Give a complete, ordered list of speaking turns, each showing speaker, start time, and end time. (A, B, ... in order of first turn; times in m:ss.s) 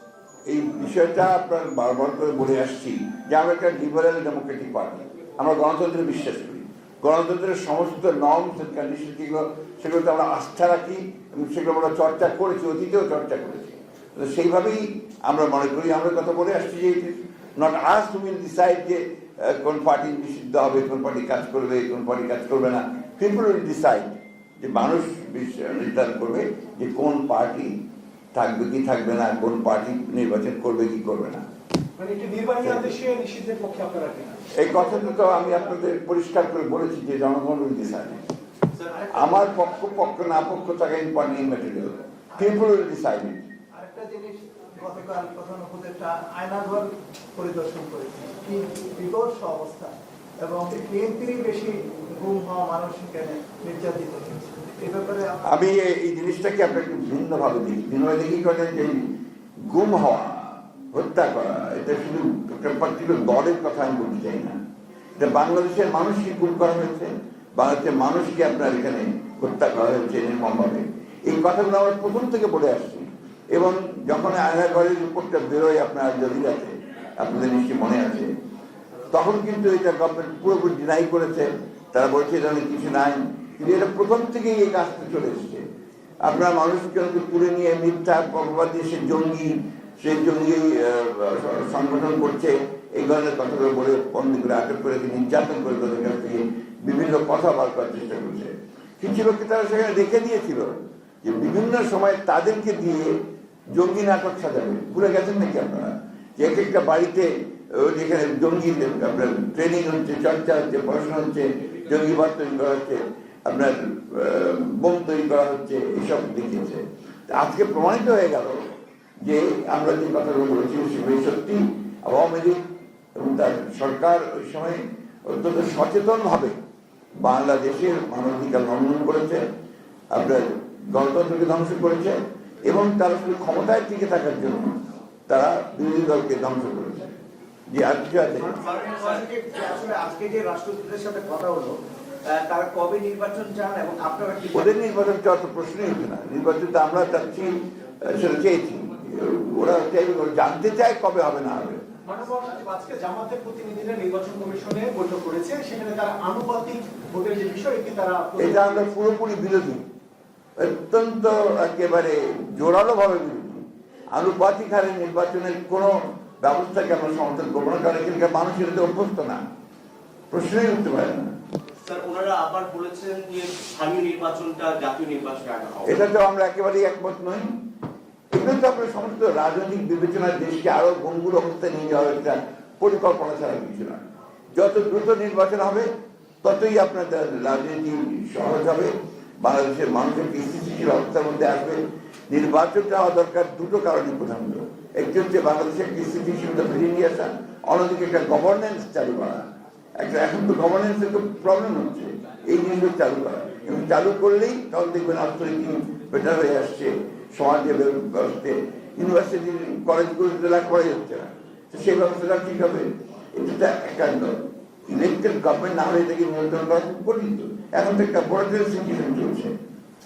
0:00.5-0:27.8 A
0:28.3-0:31.4 A
0:32.0-0:35.5 B
0:32.6-0:33.0 A
0:34.5-0:38.2 A
0:38.9-0:39.3 C
0:39.1-0:43.5 A
0:43.8-0:55.6 C
0:55.4-1:04.6 A
1:05.2-1:18.3 A
1:19.1-1:25.7 A
1:26.2-1:43.2 A
1:43.7-1:58.7 A
1:59.2-2:02.6 A
2:03.2-2:06.6 A
2:07.2-2:09.4 A
2:10.1-2:14.8 A
2:15.3-2:17.2 A
2:17.7-2:18.6 A
2:18.5-2:19.2 D
2:18.6-2:20.8 C
2:19.2-2:21.7 E
2:22.4-2:24.7 E
2:24.5-2:31.8 A
2:32.0-2:38.9 B
2:38.4-2:39.8 A
2:40.6-2:49.4 A
2:50.3-2:51.3 A
2:51.8-2:56.0 D
2:55.8-2:57.6 A
2:58.3-3:05.9 A
3:06.4-3:19.5 A
3:20.0-3:39.6 A